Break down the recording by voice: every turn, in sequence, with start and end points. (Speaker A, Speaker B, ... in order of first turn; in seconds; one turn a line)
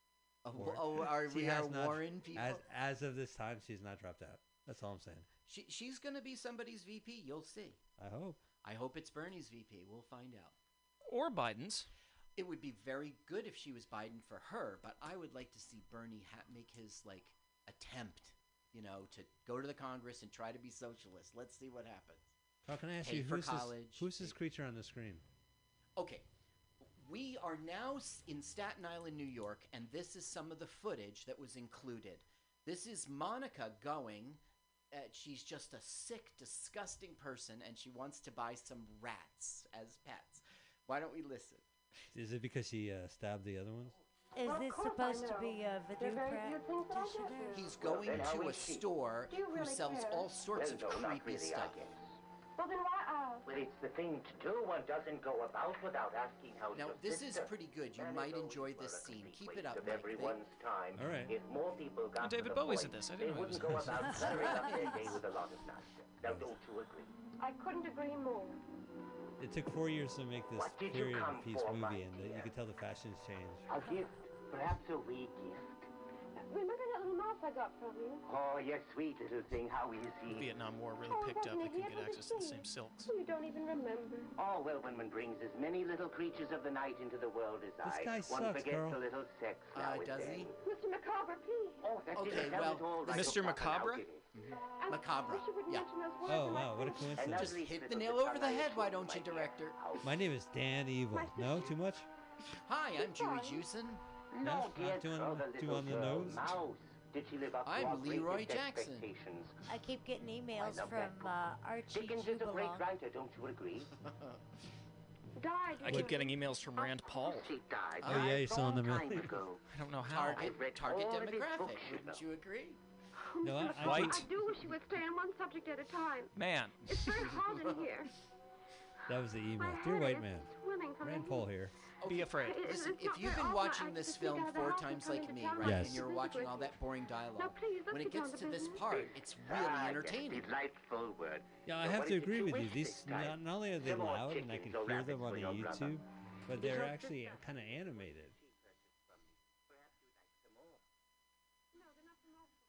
Speaker A: 0.4-2.6
Speaker B: 0.5-5.3
Speaker A: 5.5-7.8
Speaker B: 8.0-8.4
Speaker A: 8.6-10.5
Speaker C: 11.1-11.9
Speaker A: 12.3-22.3
Speaker B: 22.6-25.2
Speaker A: 23.0-24.4
Speaker A: 25.9-26.2
Speaker A: 27.0-34.4
Speaker A: 34.9-41.7
Speaker B: 42.1-44.0
Speaker D: 44.3-47.6
Speaker E: 44.4-47.6
Speaker A: 47.5-51.8
Speaker F: 47.7-48.9
Speaker E: 49.3-50.3
Speaker F: 50.5-52.1
Speaker E: 52.6-53.4
Speaker F: 53.4-67.1
Speaker A: 56.7-60.4
Speaker B: 60.9-61.3
Speaker C: 62.2-64.0
Speaker D: 64.1-64.6
Speaker A: 64.2-64.9
Speaker B: 66.2-66.5
Speaker E: 67.4-68.6
Speaker B: 69.4-73.7
Speaker F: 70.5-72.5
Speaker F: 73.7-75.8
Speaker E: 76.5-78.2
Speaker F: 78.2-80.5
Speaker C: 80.3-83.1
Speaker E: 81.0-84.3
Speaker F: 84.3-90.5
Speaker B: 87.8-89.0
Speaker A: 89.7-90.5
Speaker E: 90.6-91.8
Speaker F: 91.8-94.3
Speaker A: 92.1-93.4
Speaker C: 93.1-94.0
Speaker A: 94.3-95.8
Speaker E: 94.5-97.1
Speaker B: 96.2-97.6
Speaker F: 97.1-100.2
Speaker A: 97.5-99.9
Speaker B: 100.0-102.0
Speaker E: 101.1-101.8
Speaker A: 102.6-104.0
Speaker E: 102.9-103.6
Speaker F: 104.3-109.6
Speaker B: 104.4-106.6
Speaker A: 107.6-109.1
Speaker D: 109.7-112.8
Speaker F: 110.5-111.4
Speaker F: 111.9-113.9
Speaker E: 115.3-117.4
Speaker C: 115.8-117.5
Speaker F: 117.4-119.6
Speaker A: 118.0-118.3
Speaker B: 118.0-119.5
Speaker C: 119.7-120.3
Speaker A: 120.0-122.8
Speaker F: 120.3-122.2
Speaker E: 123.2-126.3
Speaker B: 123.4-124.3
Speaker C: 123.8-124.2
Speaker C: 126.3-126.8
Speaker E: 126.8-128.1
Speaker A: 127.2-127.8
Speaker B: 129.1-131.7
Speaker E: 129.5-131.6
Speaker A: 132.0-140.5
Speaker C: 132.1-132.6
Speaker E: 132.4-136.8
Speaker B: 135.6-136.0
Speaker E: 137.3-138.8
Speaker F: 138.8-146.0
Speaker B: 141.7-148.3
Speaker F: 146.6-150.8